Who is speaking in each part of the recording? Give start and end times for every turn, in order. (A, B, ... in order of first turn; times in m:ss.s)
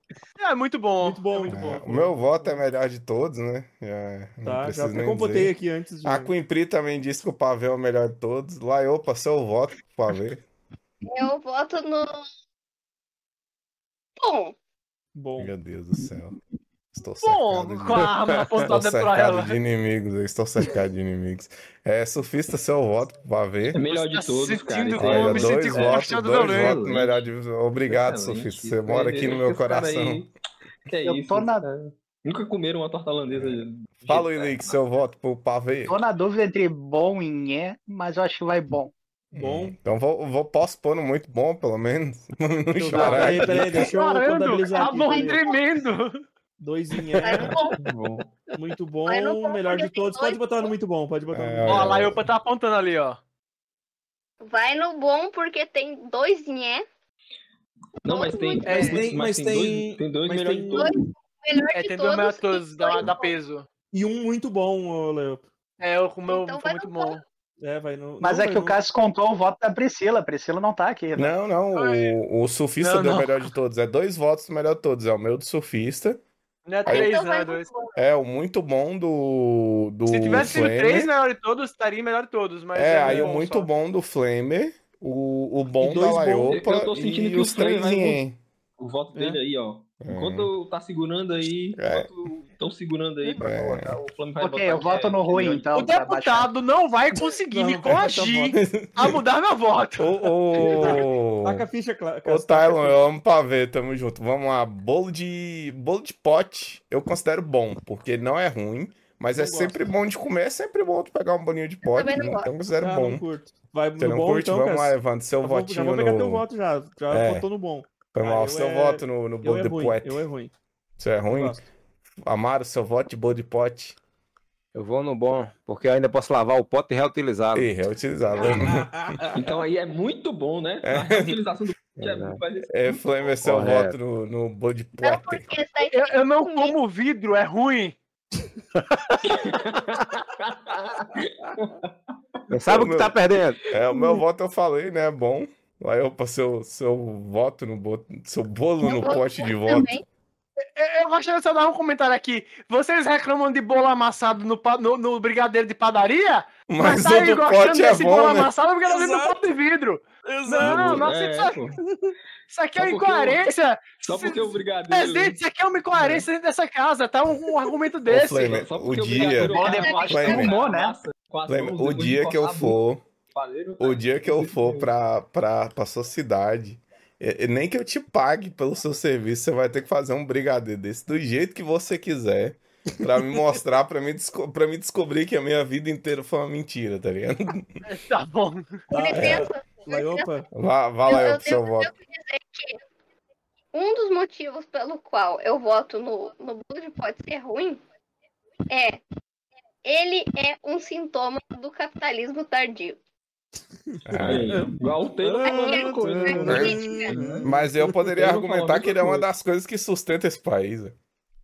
0:00.4-0:01.6 A
0:01.0-0:02.6 B
0:01.5-0:05.5 C
0:04.4-0:06.3 B
0:06.0-0:10.4 C
0:11.0-0:12.2 D
0:14.2-0:14.5 D
0:15.1-0:15.5 B
0:15.4-0:16.4 C
0:16.9-0:23.8 C
0:17.2-0:19.6 A
0:23.7-0:27.2 E
0:23.9-0:26.8 A
0:25.0-0:30.2 C
0:27.9-0:30.3 E
0:30.8-0:34.8 E
0:31.0-0:31.6 F
0:33.3-0:36.0 C
0:35.9-0:38.9 F
0:39.3-0:43.8 C
0:39.3-0:39.7 B
0:42.8-0:45.4 B
0:43.0-0:46.2 A
0:44.7-0:45.6 D
0:46.6-0:47.5 B
0:47.2-0:47.8 D
0:47.8-0:48.4 E
0:48.5-0:52.0 B
0:49.1-0:50.7 D
0:51.3-0:52.2 C
0:51.7-0:53.2 A
0:54.4-0:56.8 D
0:58.0-0:58.9 D
0:58.0-1:00.9 E
0:58.6-0:59.0 A
0:58.7-1:00.9 B
1:00.7-1:03.3 D
1:01.7-1:03.6 A
1:03.9-1:05.4 B
1:05.8-1:07.2 A
1:06.3-1:07.2 D
1:07.6-1:08.8 B
1:08.2-1:11.3 F
1:11.1-1:16.2 C
1:11.7-1:12.2 A
1:12.8-1:13.5 A
1:16.7-1:17.7 A
1:16.8-1:18.0 D
1:18.0-1:21.1 C
1:20.1-1:23.7 A
1:22.7-1:28.4 C
1:23.1-1:23.4 B
1:25.8-1:26.6 B
1:26.5-1:28.2 E
1:28.8-1:35.7 E
1:29.1-1:29.4 B
1:30.0-1:30.5 C
1:31.8-1:32.1 C
1:33.4-1:34.0 C
1:34.4-1:36.5 F
1:35.7-1:40.9 A
1:37.5-1:38.6 B
1:38.5-1:39.2 C
1:40.0-1:41.6 C
1:40.6-1:43.0 B
1:42.2-1:53.2 C
1:49.3-1:49.9 B
1:51.8-1:52.5 D
1:52.8-2:00.5 B
1:54.0-1:56.4 C
1:57.1-1:57.4 C
1:58.1-2:00.2 C
2:01.0-2:01.6 C
2:01.3-2:01.6 B
2:02.2-2:04.0 C
2:04.7-2:07.7 G
2:07.5-2:09.2 C
2:08.4-2:09.6 B
2:09.3-2:13.4 E
2:10.8-2:11.4 C
2:12.0-2:12.4 G
2:12.7-2:15.5 C
2:13.4-2:13.9 G
2:15.0-2:16.7 D
2:15.9-2:18.0 A
2:19.2-2:21.9 E
2:22.5-2:23.6 G
2:22.7-2:23.2 C
2:23.7-2:29.9 C
2:28.8-2:30.0 D
2:30.7-2:41.6 A
2:36.7-2:38.5 C
2:38.8-2:39.4 B
2:40.2-2:41.1 B
2:40.6-2:41.8 E
2:41.9-2:42.1 B
2:42.5-2:48.6 A
2:42.8-2:43.5 E
2:44.0-2:45.4 E
2:46.0-2:46.2 B
2:48.1-2:50.6 C
2:48.3-2:52.8 E
2:49.6-2:49.9 A
2:49.6-2:50.5 D
2:49.6-2:51.0 F
2:51.5-2:53.0 C
2:53.3-2:54.9 E
2:53.8-3:07.8 C
3:07.8-3:08.8 A
3:08.9-3:10.4 B
3:08.9-3:10.3 D
3:09.1-3:09.5 C
3:10.5-3:11.9 C
3:11.0-3:12.8 D
3:13.7-3:17.8 D
3:18.7-3:19.0 D
3:19.8-3:23.0 D
3:23.9-3:27.9 B
3:24.0-3:24.6 C
3:24.2-3:27.5 E
3:25.4-3:27.2 D
3:26.5-3:26.7 C
3:27.4-3:30.9 C
3:28.2-3:29.2 E